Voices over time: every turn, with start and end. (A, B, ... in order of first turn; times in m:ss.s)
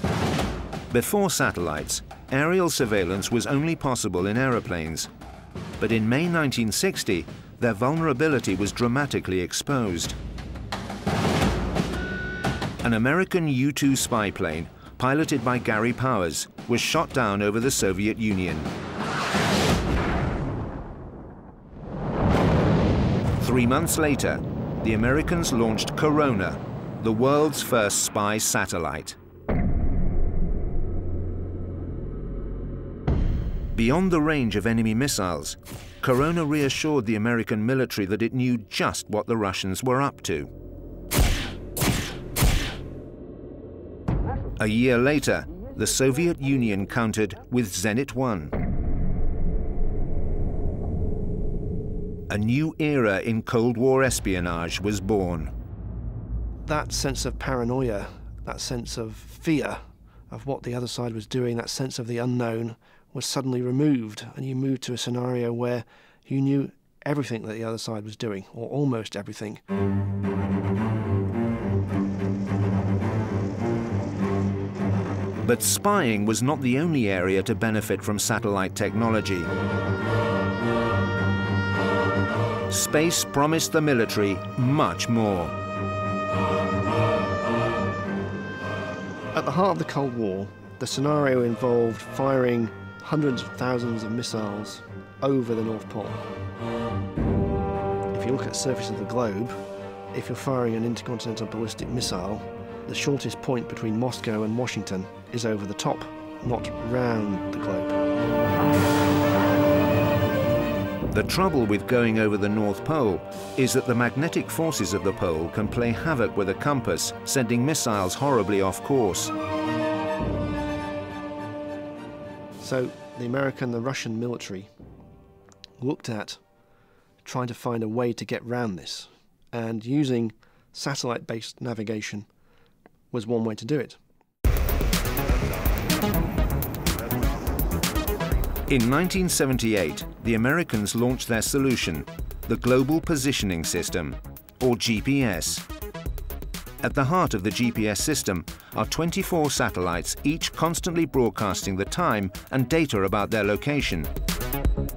0:00.9-0:05.1 A
0:05.8-0:10.2 A
0:12.8-0:18.7 A
0:23.4-0:29.2 A
0:33.7-0:40.5 A
0:44.6-0:48.5 A
0:52.3-0:55.5 A
0:56.6-1:09.6 B
1:15.4-1:19.5 A
1:22.7-1:25.5 A
1:29.3-1:36.2 B
1:38.1-1:39.6 B
1:40.1-1:48.0 B
1:51.1-1:59.3 A
2:02.6-2:04.7 B
2:05.8-2:06.4 B
2:07.2-2:12.3 B
2:13.1-2:14.0 B
2:18.7-2:25.6 A
2:26.8-2:34.1 A